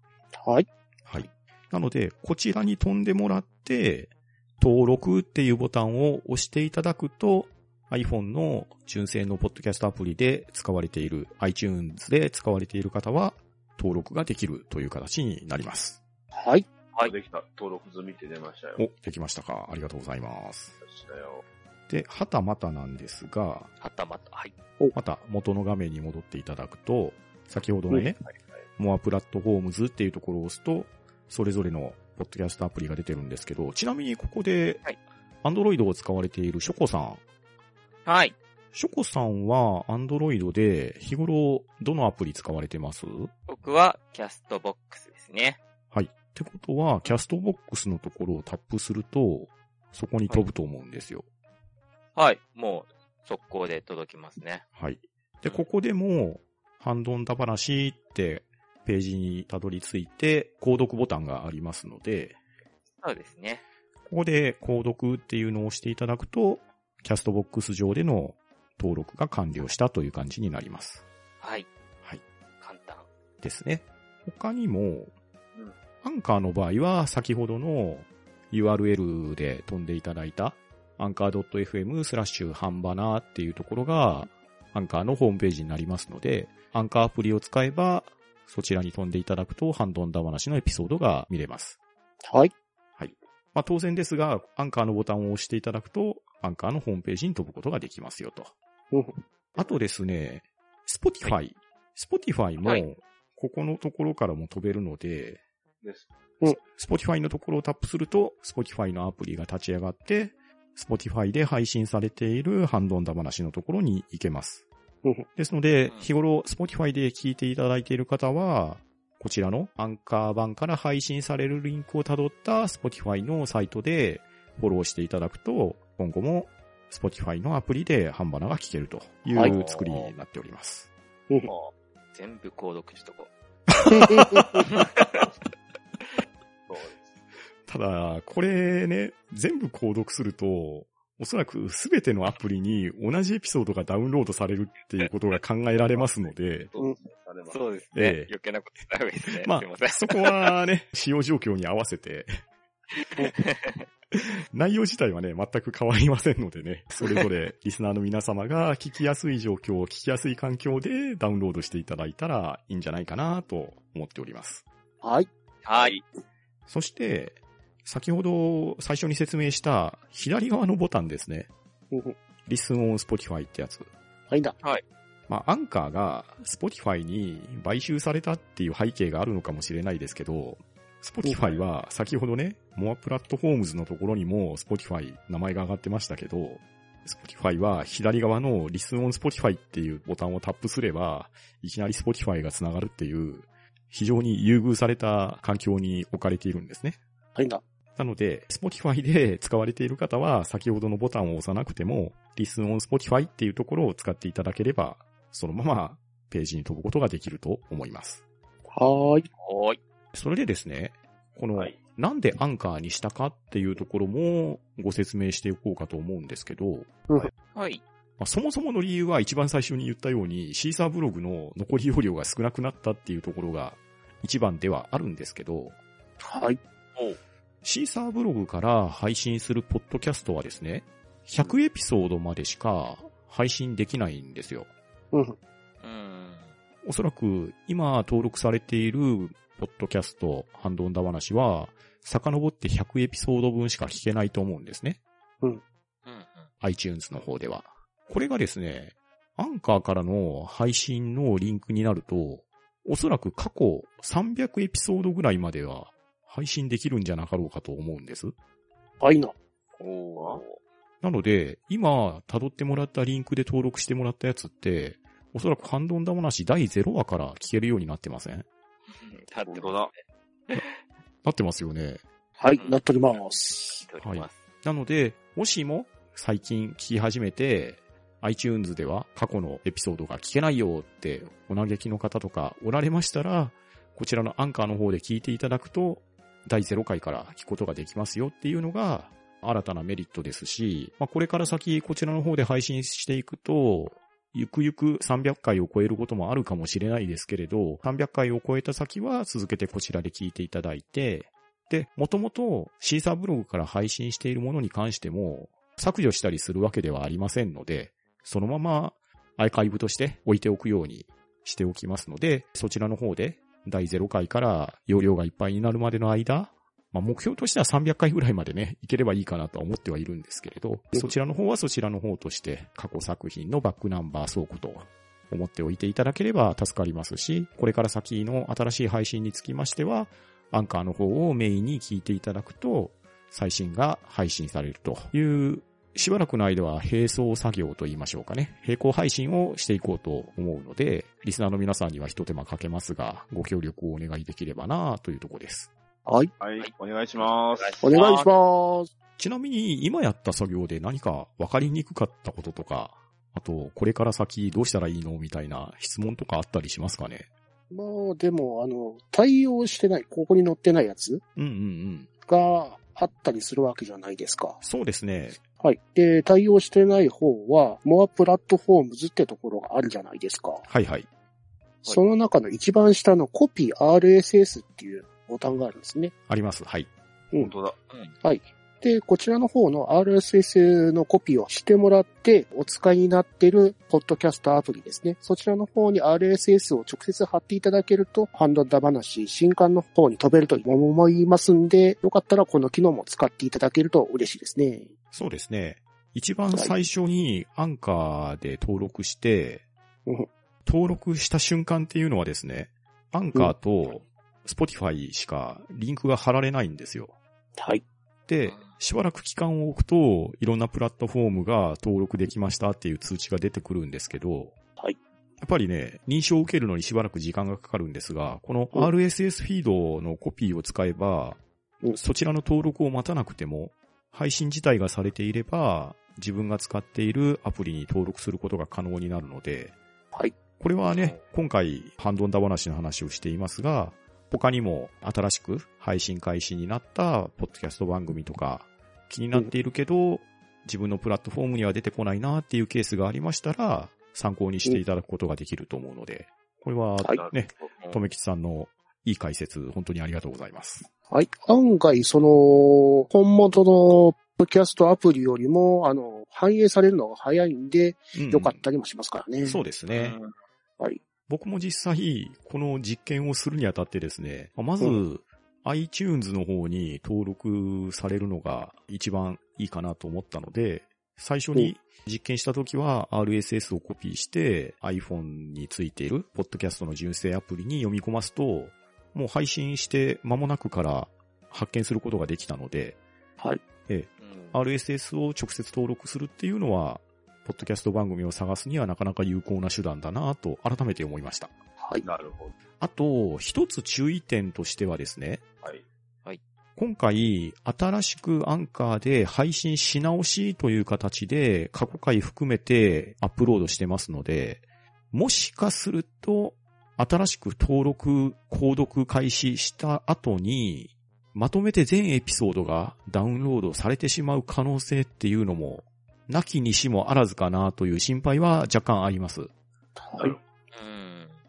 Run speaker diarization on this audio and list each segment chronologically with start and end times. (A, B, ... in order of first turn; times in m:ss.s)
0:00.4-0:00.6 A
0:01.1-0:16.0 B
0:16.3-0:16.6 A
0:17.0-0:18.8 C
0:18.8-0:20.7 B
0:20.8-0:21.4 C
0:21.9-0:23.7 B
0:23.8-0:24.5 D
0:24.9-0:28.2 B
0:28.8-0:34.8 B
0:35.4-0:37.2 B
0:38.0-0:38.3 D
0:38.7-0:43.3 B
0:43.5-0:45.6 D
0:45.9-0:51.2 B
0:52.2-0:54.6 D
0:54.8-1:02.4 B
1:03.0-1:03.6 D
1:04.1-1:11.0 B
1:11.4-1:11.7 D
1:12.6-1:13.0 D
1:13.4-1:15.1 B
1:16.0-1:31.8 B
1:32.2-1:32.5 A
1:33.0-1:38.5 B
1:38.9-1:39.2 A
1:39.6-1:45.4 B
1:45.8-1:46.1 C
1:46.5-1:54.6 B
1:55.4-2:10.9 B
2:09.4-2:10.1 D
2:12.1-2:13.3 D
2:13.9-2:14.4 A
2:13.9-2:14.6 B
2:14.6-2:15.2 D
2:16.7-2:17.1 C
2:17.7-2:26.7 B
2:26.7-2:27.8 C
2:27.5-2:30.5 D
2:27.9-2:28.3 B
2:29.4-2:32.3 B
2:33.2-2:33.8 D
2:34.1-2:44.6 B
2:45.0-2:45.3 A
2:45.6-2:46.0 D
2:46.7-2:51.5 B
2:51.9-2:52.2 A
2:52.5-2:53.9 B
2:54.3-2:54.5 A
2:55.3-3:17.0 B
3:01.2-3:01.6 A
3:17.3-3:17.6 A
3:18.0-3:28.2 B
3:28.7-3:29.2 A
3:29.4-3:29.8 D
3:30.1-3:37.3 B
3:37.5-3:37.8 D
3:38.2-3:45.8 B
3:46.2-3:46.6 A
3:47.6-3:54.7 B
3:55.8-3:56.5 D
3:56.8-4:05.0 B
4:06.1-4:06.5 D
4:06.6-4:18.3 B
4:19.0-4:19.3 A
4:19.8-4:20.4 D
4:20.2-4:20.4 C
4:21.0-4:28.4 B
4:28.9-4:30.7 D
4:29.5-4:29.9 C
4:31.2-4:32.0 B
4:32.4-4:33.8 A
4:33.8-4:34.4 D
4:34.0-5:45.7 B
5:46.0-5:46.3 A
5:46.4-5:48.0 C
5:46.6-5:48.3 D
5:47.8-5:48.9 A
5:49.2-5:57.3 B
5:57.7-6:01.2 A
6:01.4-6:02.1 B
6:02.2-6:04.6 A
6:04.6-6:05.4 B
6:05.6-6:10.6 A
6:10.7-6:11.1 B
6:11.8-6:16.1 A
6:16.3-6:16.9 B
6:17.4-6:17.8 C
6:18.2-6:34.9 A
6:35.1-6:39.6 B
6:40.6-6:47.1 B
6:47.6-6:47.8 A
6:48.3-6:54.5 B
6:55.4-7:01.4 B
7:01.9-7:09.8 B
7:10.6-7:30.9 B
7:10.8-7:11.2 D
7:27.1-7:27.7 C
7:31.1-7:39.6 A
7:38.1-7:38.6 B
7:39.4-7:40.2 B
7:39.9-7:40.3 D
7:41.3-8:03.0 B
8:03.9-8:11.5 B
8:04.2-8:04.6 D
8:11.8-8:12.0 A
8:12.0-8:12.5 C
8:12.8-8:15.4 B
8:16.8-8:39.5 B
8:40.0-8:40.4 A
8:40.7-8:41.3 D